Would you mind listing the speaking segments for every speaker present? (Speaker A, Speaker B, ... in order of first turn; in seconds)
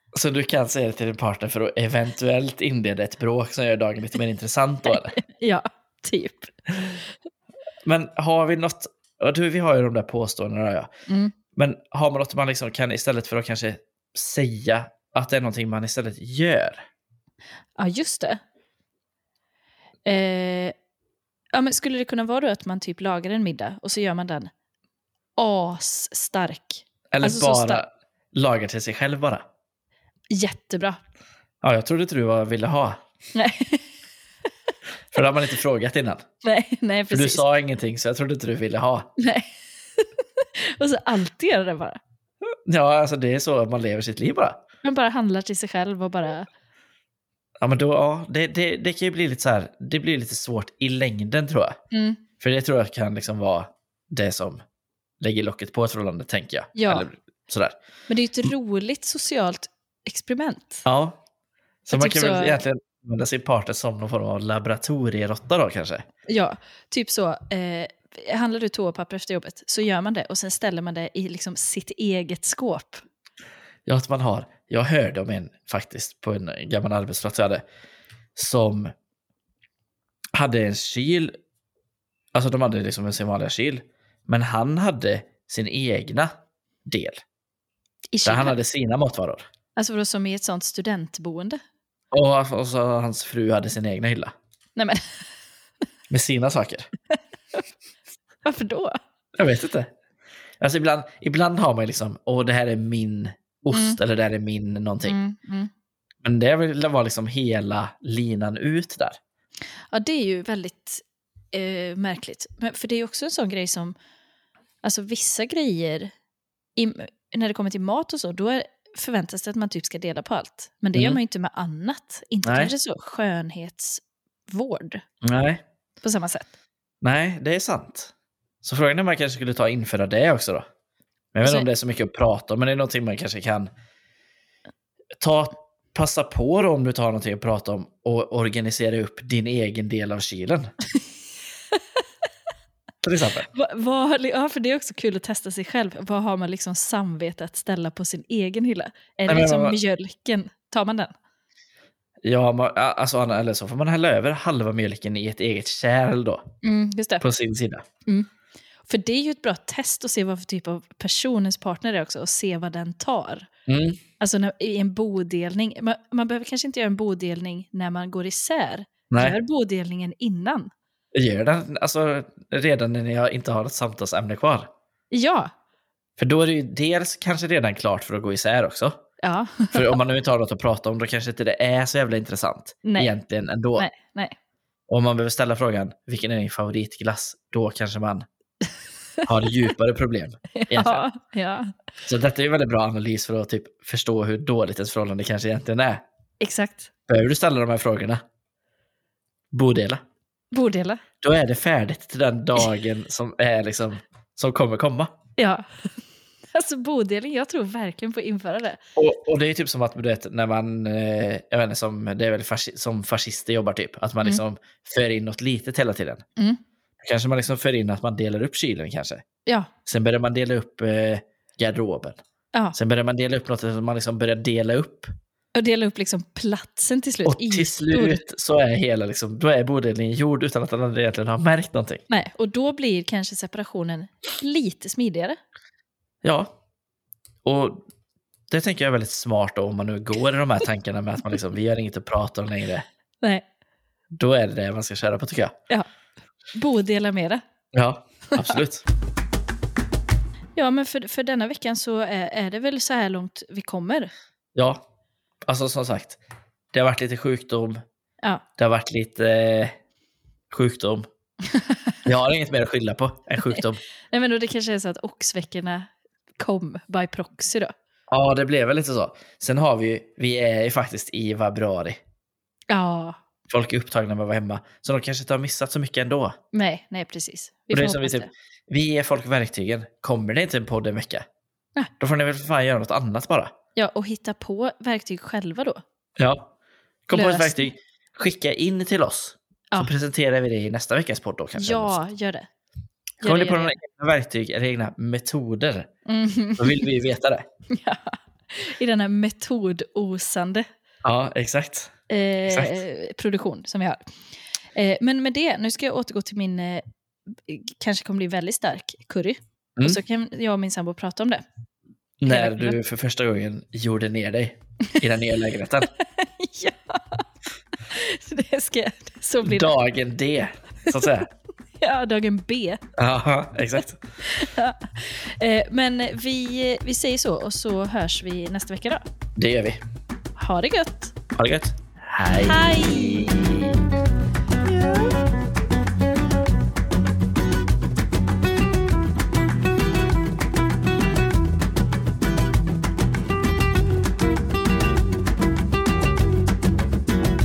Speaker A: 0.1-5.2, 7.8-10.9, 11.6-16.8, 27.1-29.4, 31.6-33.0, 35.1-36.2, 37.1-39.1, 42.5-44.6, 47.6-51.8, 52.4-54.6, 55.2-57.8, 60.9-61.2, 61.9-66.0, 73.9-77.6, 78.4-78.9, 80.3-81.3, 82.3-86.3, 86.8-87.2, 88.2-89.5, 92.1-94.3, 96.1-96.9, 99.3-99.9, 100.6-105.2, 106.2-109.2, 121.0-121.2, 122.5-122.7, 125.2-125.6, 127.0-128.1, 128.6-130.7, 131.3-133.7, 135.2-140.7, 143.0-143.5, 149.3-149.8, 152.2-156.4, 157.2-157.8, 163.7-164.0, 169.1-169.4, 171.1-174.7, 176.2-179.0, 179.7-183.9, 184.9-188.3, 189.2-191.1, 192.1-196.0, 197.1-198.2, 199.5-200.0, 201.2-205.2, 209.0-216.2, 217.0-219.2, 219.9-222.2, 222.8-225.1, 227.2-232.0, 236.2-236.6, 237.4-237.8, 238.5-242.9, 244.1-245.5, 247.7-248.8, 254.6-254.8, 255.4-256.2, 256.7-257.8, 258.6-259.8, 260.5-261.1, 262.1-263.8, 268.1-272.0, 273.5-276.4, 277.7-281.2, 282.0-283.5, 286.2-286.5, 287.1-292.0, 293.2-295.9, 296.6-297.5, 301.0-301.9, 302.5-302.8, 312.2-315.9, 319.4-321.3, 323.0-324.0, 329.4-329.8, 331.4-333.8
Speaker B: 5.1-6.5, 11.1-11.3, 17.8-18.4, 20.1-20.7, 21.5-24.5, 25.4-27.8, 30.3-31.0, 33.4-33.9, 36.4-37.4, 39.2-42.0, 44.8-46.5, 51.9-52.2, 56.8-57.1, 58.1-60.8, 61.9-62.6, 66.3-73.0, 88.1-88.6, 89.8-91.6, 94.8-95.1, 98.5-99.0, 103.7-104.0, 105.1-105.7, 109.9-114.0, 114.8-116.1, 116.8-125.0, 126.0-126.5, 143.5-151.1, 156.6-157.2, 158.9-163.5, 164.2-170.7, 175.1-175.5, 179.2-180.0, 182.8-183.1, 183.8-184.3, 190.5-191.7, 196.4-196.9, 200.5-201.0, 205.4-205.7, 206.5-208.8, 225.6-228.2, 232.1-235.4, 246.5-247.4, 248.3-248.6, 250.6-254.1, 263.4-267.7, 272.7-273.2, 276.5-278.3, 283.8-285.8, 287.1-287.7, 291.6-292.5, 293.2-293.8, 296.1-296.9, 297.7-300.7, 302.1-304.0, 304.8-311.4, 312.3-312.8, 315.8-317.2, 317.9-319.7, 321.8-322.8, 324.2-329.1, 330.4-331.2, 332.4-333.4